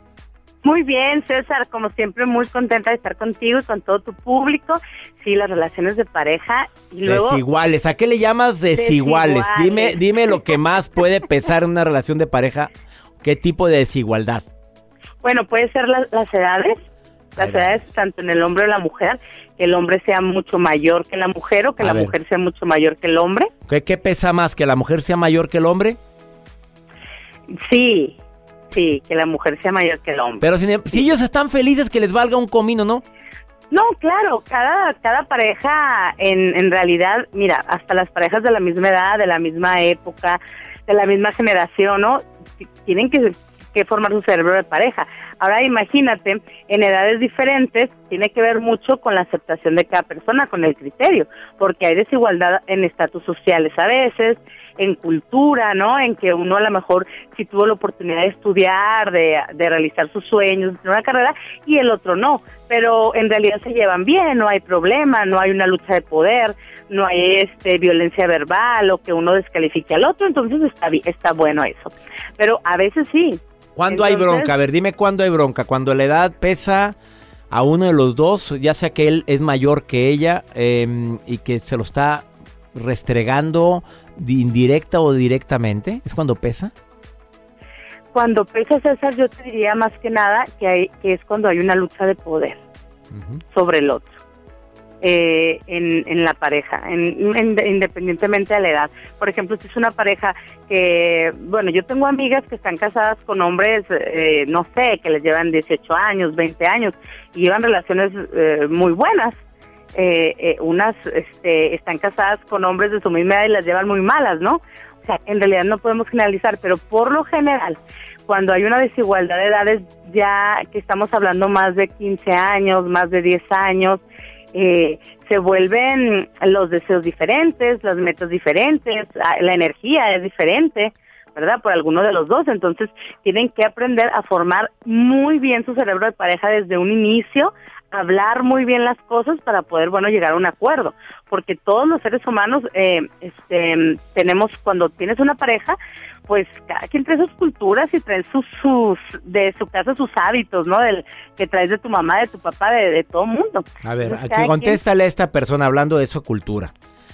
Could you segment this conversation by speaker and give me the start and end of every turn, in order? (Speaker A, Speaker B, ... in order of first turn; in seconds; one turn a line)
Speaker A: 0.6-7.4
Speaker B: 7.0-12.7
Speaker A: 8.8-10.5
Speaker B: 13.2-14.4
Speaker A: 15.2-16.8
Speaker A: 17.4-23.5
Speaker B: 17.4-17.7
Speaker B: 21.8-22.1
Speaker B: 23.7-26.0
Speaker A: 27.5-28.1
Speaker A: 28.7-30.4
Speaker B: 30.4-33.0
Speaker A: 33.7-42.2
Speaker A: 42.8-74.5
Speaker B: 73.8-77.0
Speaker B: 77.5-86.7
Speaker A: 88.1-92.6
Speaker B: 93.1-93.4
Speaker A: 93.5-94.1
Speaker A: 95.0-109.3
Speaker A: 109.9-124.0
Speaker A: 124.5-145.8
Speaker A: 146.3-154.8
Speaker B: 153.8-156.7